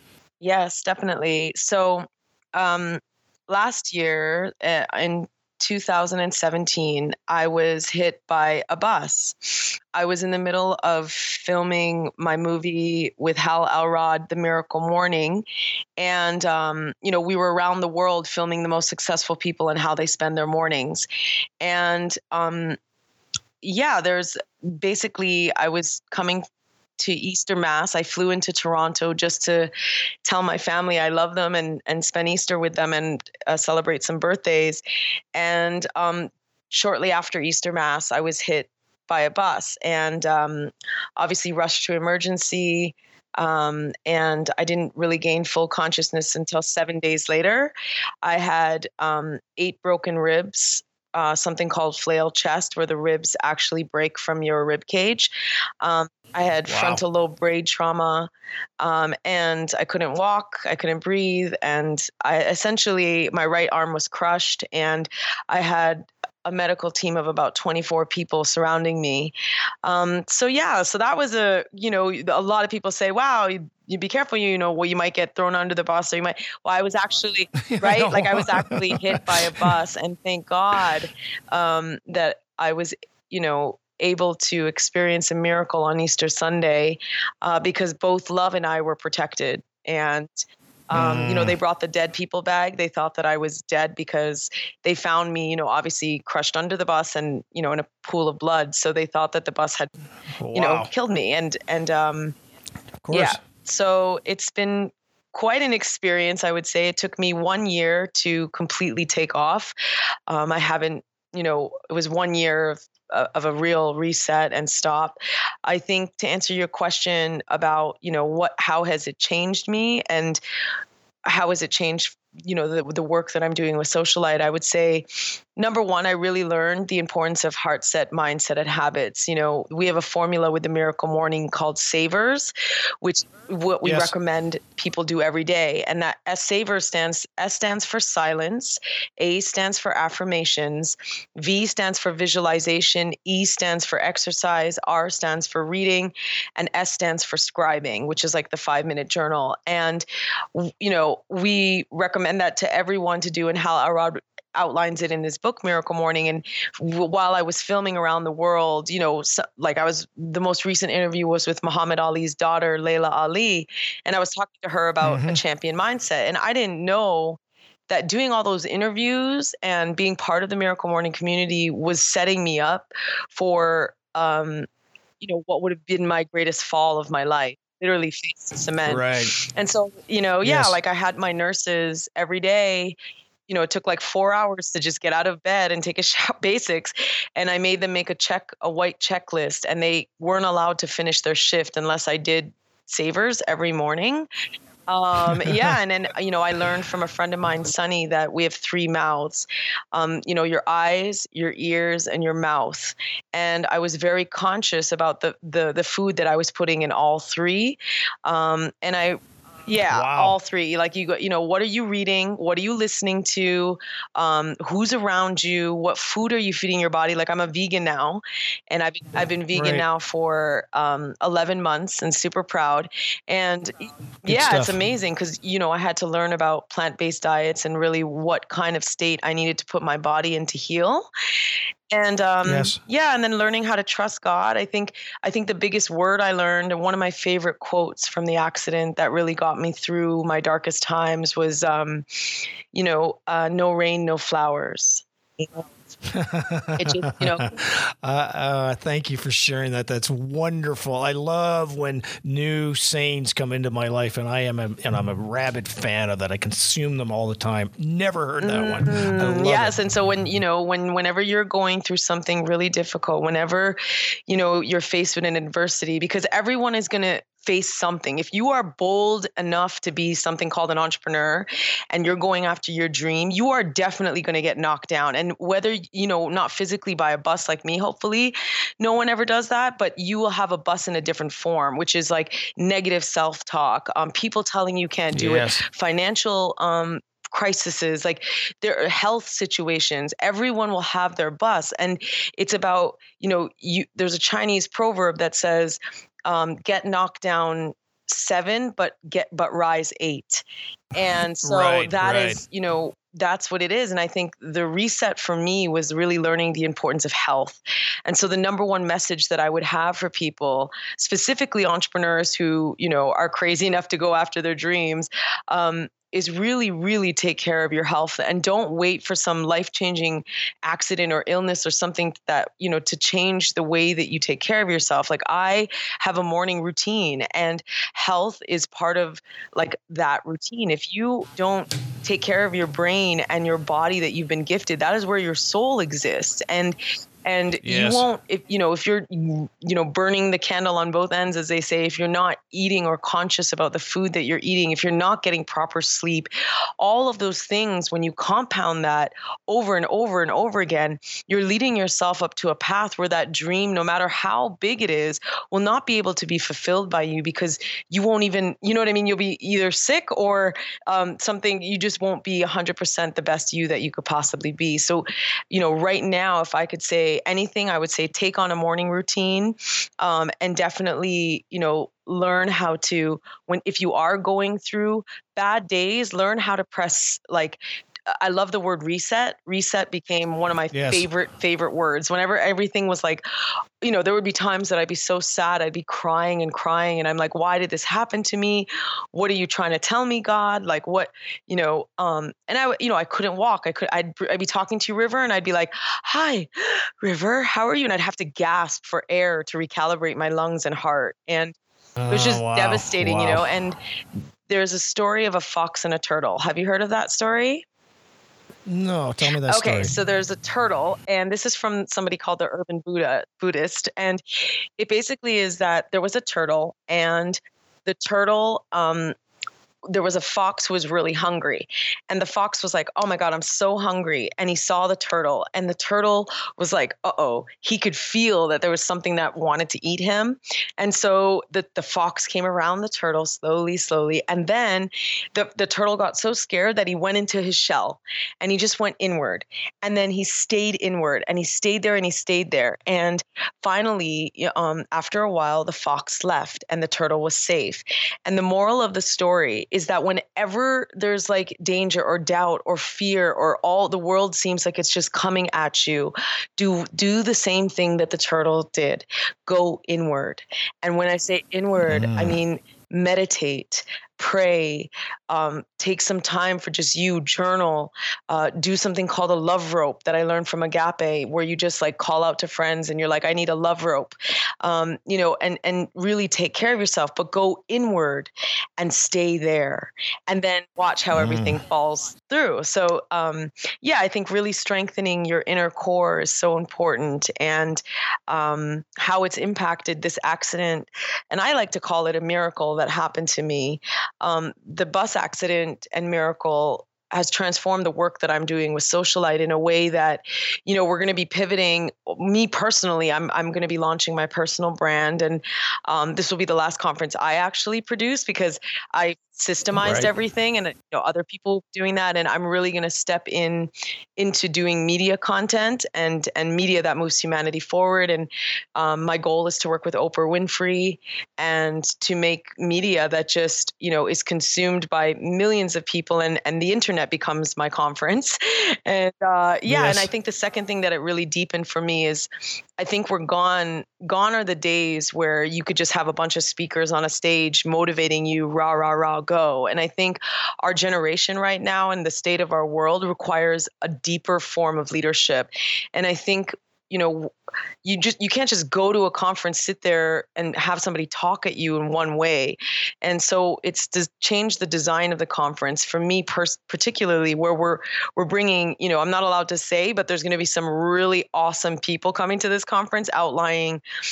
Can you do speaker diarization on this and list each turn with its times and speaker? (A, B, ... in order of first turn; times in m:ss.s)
0:00.4-0:15.4 A
0:16.0-0:21.1 A
0:21.6-0:22.8 A
0:23.6-0:26.4 A
0:27.0-0:29.7 A
0:30.2-0:34.8 A
0:35.3-1:39.9 A
0:56.7-0:57.0 B
1:17.6-1:19.8 B
1:30.9-1:31.6 B
1:40.4-1:40.9 B
1:40.5-1:42.3 A
1:43.0-1:43.4 B
1:43.1-1:49.7 A
1:50.3-2:00.4 A
2:01.3-2:05.0 A
2:05.6-2:47.4 A
2:13.8-2:14.1 B
2:45.0-2:45.4 B
2:47.9-2:54.7 A
2:55.2-3:03.0 A
2:58.8-2:59.3 B
3:00.4-3:00.8 B
3:03.5-3:14.3 A
3:14.9-3:51.1 A
3:15.3-3:15.7 B
3:29.9-3:30.4 B
3:39.5-3:39.8 B
3:44.2-3:44.8 B
3:51.9-4:02.0 A
3:52.4-3:52.8 B
4:02.7-4:05.6 A
4:06.1-4:19.8 B
4:06.8-4:07.4 A
4:18.4-6:17.6 A
4:45.1-4:45.6 B
5:01.4-5:02.4 B
5:37.6-5:38.0 B
6:18.1-6:23.2 A
6:20.7-6:21.1 B
6:23.8-6:41.5 A
6:42.0-6:43.4 B
6:42.1-6:43.8 A
6:44.5-6:47.6 A
6:48.6-6:49.9 B
6:49.5-6:54.2 A
6:54.8-6:59.1 A
6:59.9-9:07.3 A
7:41.8-7:42.4 B
8:01.1-8:01.6 B
8:29.7-8:30.1 B
8:49.7-8:50.1 B
9:07.8-9:23.8 A